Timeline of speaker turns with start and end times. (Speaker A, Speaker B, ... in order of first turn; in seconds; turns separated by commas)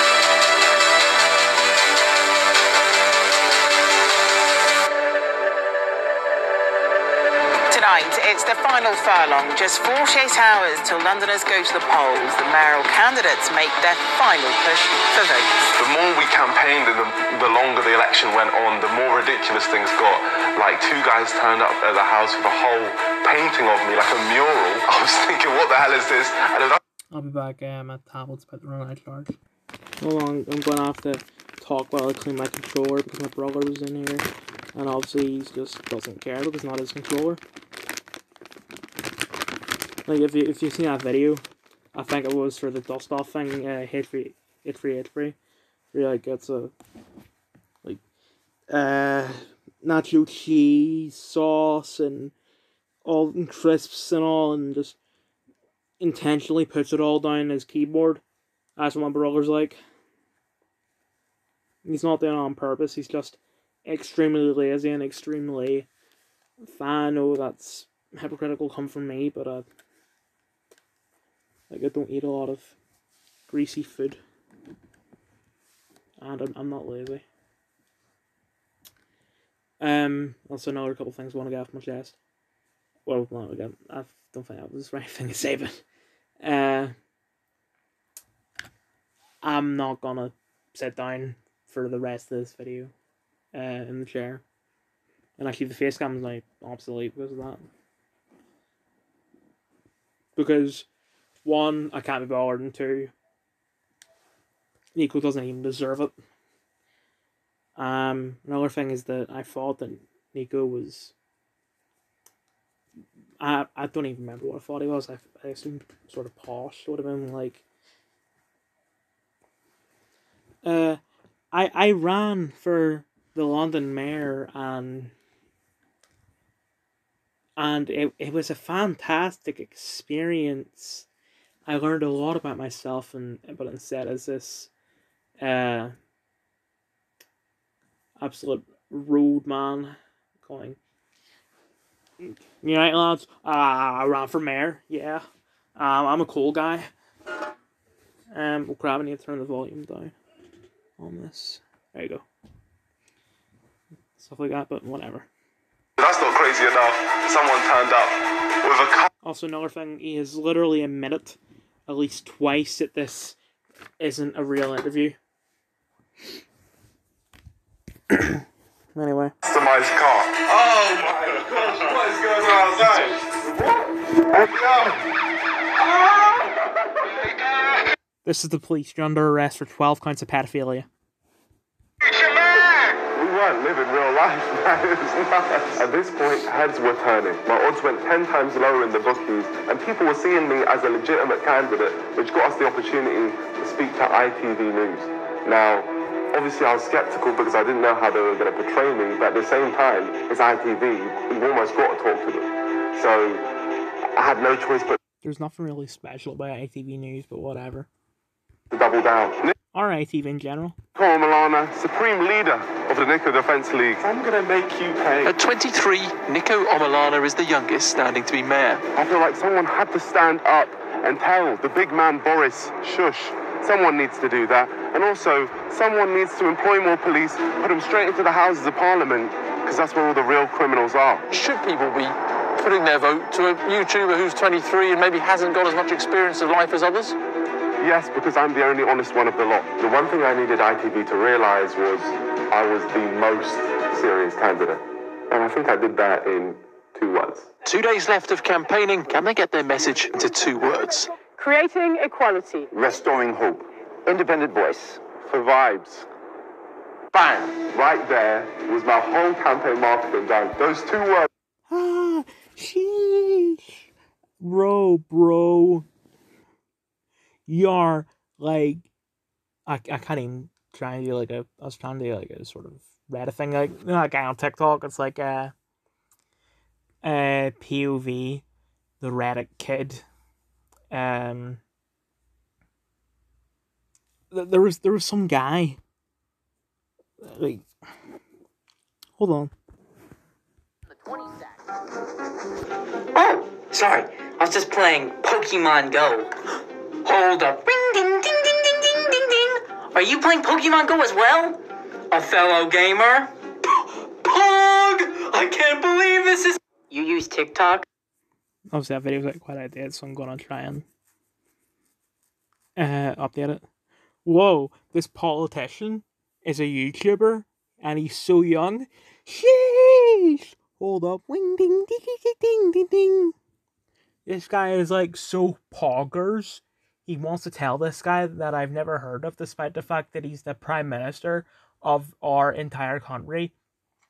Speaker A: 7.7-15.5, Speaker B: 15.8-26.8, Speaker C: 27.1-29.4, Speaker C: 30.0-37.4, Speaker C: 40.1-45.4, Speaker C: 45.9-46.7, Speaker C: 48.7-52.3, Speaker C: 53.0-55.0, Speaker C: 56.0-58.2, Speaker C: 58.8-59.8, Speaker C: 61.9-65.9, Speaker C: 66.6-69.7, Speaker C: 71.7-72.7, Speaker C: 73.5-74.2, Speaker C: 76.2-77.2, Speaker C: 79.8-82.2, Speaker C: 83.1-85.8, Speaker C: 86.4-87.0, Speaker C: 89.4-92.9, Speaker C: 93.5-94.4, Speaker C: 95.4-97.7, Speaker C: 100.4-100.9, Speaker C: 101.4-103.1, Speaker C: 105.0-106.1, Speaker C: 107.8-111.1, Speaker C: 113.4-117.6, Speaker C: 120.6-121.0, Speaker C: 121.5-125.1, Speaker C: 127.6-131.1, Speaker C: 131.7-134.7, Speaker C: 135.4-135.9, Speaker C: 138.2-140.8, Speaker C: 142.2-145.2, Speaker C: 145.8-146.9, Speaker C: 148.3-150.1, Speaker C: 151.0-152.2, Speaker C: 154.2-155.3, Speaker B: 156.0-159.1, Speaker C: 159.2-163.4, Speaker C: 164.0-165.2, Speaker C: 168.1-168.4, Speaker C: 168.9-169.3, Speaker B: 169.4-173.2, Speaker B: 174.3-175.0, Speaker B: 176.2-176.4, Speaker C: 178.2-180.9, Speaker B: 183.1-203.5, Speaker B: 204.2-205.0, Speaker C: 205.2-207.9, Speaker B: 208.7-209.5, Speaker C: 209.7-210.8, Speaker B: 210.9-215.3, Speaker D: 215.2-218.8, Speaker B: 218.9-231.2, Speaker D: 231.3-237.2, Speaker B: 237.8-247.5, Speaker D: 247.7-251.1, Speaker B: 253.3-253.6, Speaker A: 254.1-254.4, Speaker B: 255.3-256.0, Speaker B: 257.6-261.3, Speaker C: 261.7-263.9, Speaker C: 264.4-265.9, Speaker C: 267.5-268.9, Speaker C: 269.7-275.5, Speaker C: 277.0-278.4, Speaker C: 279.0-280.0, Speaker C: 280.9-281.6, Speaker C: 284.3-285.8, Speaker C: 287.2-287.7, Speaker C: 289.2-289.5, Speaker E: 293.1-296.3, Speaker E: 297.0-307.9, Speaker C: 308.7-310.9, Speaker C: 312.8-313.6, Speaker C: 314.2-323.4, Speaker C: 324.3-333.5